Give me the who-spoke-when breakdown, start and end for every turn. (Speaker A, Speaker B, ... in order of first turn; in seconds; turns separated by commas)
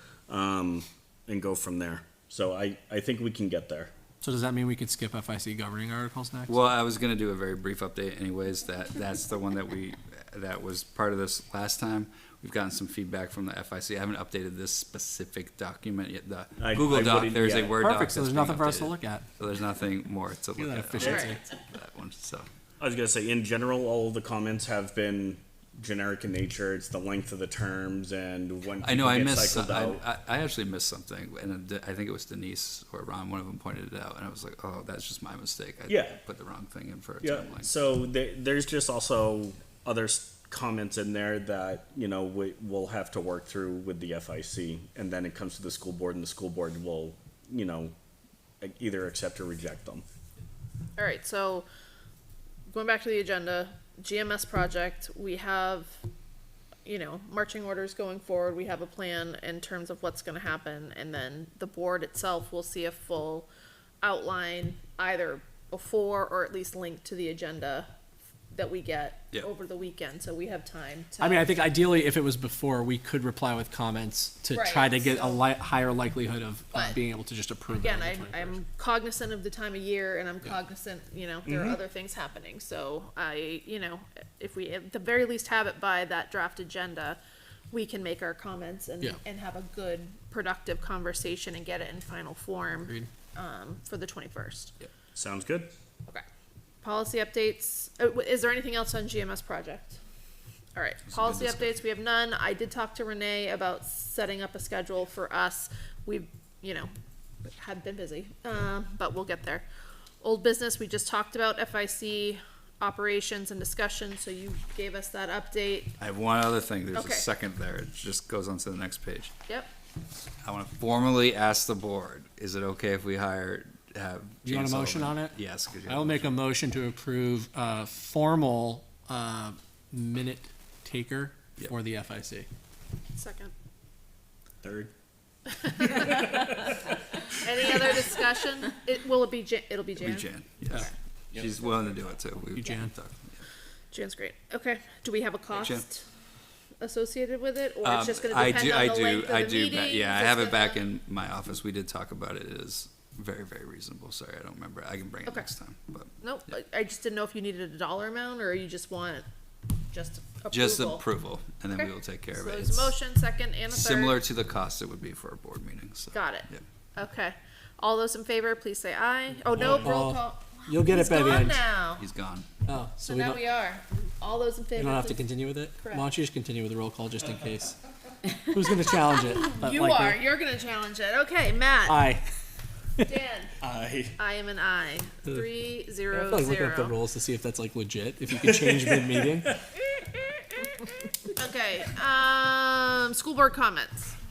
Speaker A: 0.3-3.9, Speaker B: 4.2-6.6, Speaker C: 6.5-22.5, Speaker A: 16.6-17.8, Speaker B: 17.8-19.3, Speaker B: 20.6-21.4, Speaker D: 21.0-21.4, Speaker A: 21.0-21.3, Speaker A: 22.8-30.0, Speaker C: 28.8-37.7, Speaker A: 35.9-36.2, Speaker A: 37.2-47.9, Speaker A: 48.6-50.0, Speaker D: 51.0-51.7, Speaker D: 52.7-56.0, Speaker D: 56.9-63.5, Speaker D: 64.0-67.9, Speaker D: 68.5-71.5, Speaker B: 71.2-78.6, Speaker D: 74.5-75.4, Speaker D: 76.7-77.0, Speaker D: 77.7-87.2, Speaker A: 81.5-81.8, Speaker D: 87.7-94.7, Speaker B: 92.8-93.1, Speaker A: 95.1-95.7, Speaker D: 96.8-100.0, Speaker D: 100.8-106.9, Speaker C: 101.1-101.8, Speaker D: 107.5-109.7, Speaker D: 110.2-115.9, Speaker C: 116.0-119.3, Speaker D: 117.0-117.3, Speaker C: 120.4-126.3, Speaker B: 124.4-132.5, Speaker D: 133.2-133.5, Speaker A: 134.6-134.9, Speaker D: 135.6-136.8, Speaker D: 137.4-140.9, Speaker C: 140.0-143.4, Speaker B: 142.6-142.9, Speaker D: 143.9-146.0, Speaker C: 145.6-145.9, Speaker D: 146.8-150.8, Speaker C: 147.8-156.1, Speaker D: 156.2-159.3, Speaker D: 159.9-161.0, Speaker C: 160.5-162.9, Speaker D: 161.8-164.2, Speaker C: 163.7-166.6, Speaker D: 166.1-172.1, Speaker B: 169.5-171.6, Speaker C: 172.0-172.5, Speaker B: 172.7-173.4, Speaker D: 173.0-175.2, Speaker B: 174.8-180.2, Speaker D: 175.8-176.1, Speaker D: 178.2-182.0, Speaker B: 181.9-182.2, Speaker D: 183.0-183.5, Speaker A: 183.6-184.2, Speaker D: 184.2-186.9, Speaker B: 186.1-189.6, Speaker D: 190.0-190.7, Speaker D: 191.3-194.2